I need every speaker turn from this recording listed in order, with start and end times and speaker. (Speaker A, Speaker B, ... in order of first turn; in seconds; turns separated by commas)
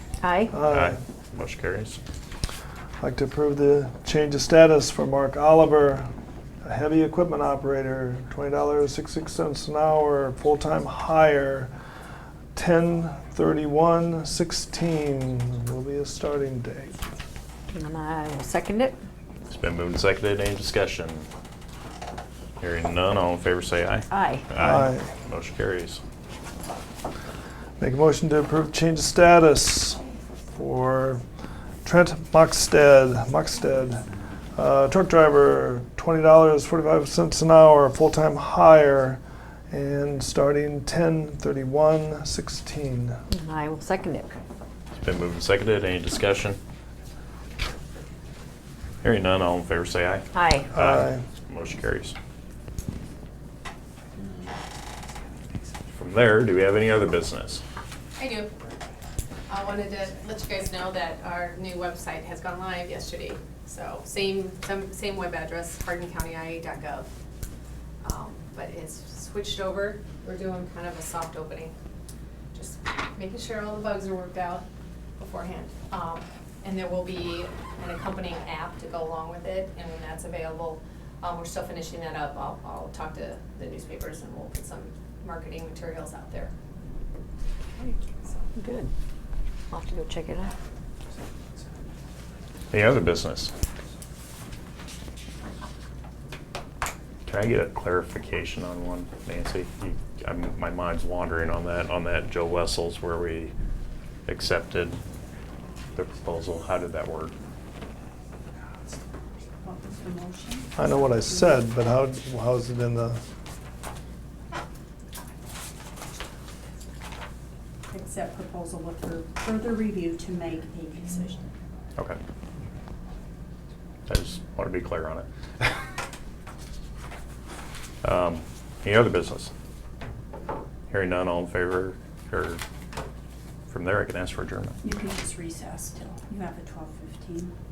Speaker A: 0.2-0.5, Speaker B: 0.5-1.0, Speaker C: 0.6-2.0, Speaker B: 3.0-6.1, Speaker B: 6.6-11.7, Speaker B: 12.5-16.9, Speaker A: 17.7-18.9, Speaker C: 19.5-21.3, Speaker C: 22.6-26.0, Speaker A: 24.1-24.5, Speaker B: 24.5-25.1, Speaker B: 27.8-30.0, Speaker B: 30.5-31.2, Speaker B: 31.8-43.2, Speaker A: 43.3-44.4, Speaker C: 45.0-46.6, Speaker C: 49.0-52.1, Speaker A: 50.3-50.7, Speaker B: 50.7-51.2, Speaker C: 55.9-57.6, Speaker D: 58.2-58.5, Speaker D: 59.5-67.1, Speaker D: 68.0-71.7, Speaker D: 72.5-74.6, Speaker D: 75.2-86.5, Speaker D: 87.8-88.3, Speaker A: 88.5-88.9, Speaker A: 89.7-90.5, Speaker C: 92.7-93.5, Speaker C: 97.2-103.5, Speaker C: 104.3-105.0, Speaker C: 105.9-107.3, Speaker E: 109.6-111.5, Speaker B: 110.8-113.2, Speaker E: 117.9-121.5, Speaker C: 124.1-125.3, Speaker C: 128.0-129.5, Speaker C: 130.9-132.6, Speaker C: 133.7-134.8, Speaker E: 134.8-137.5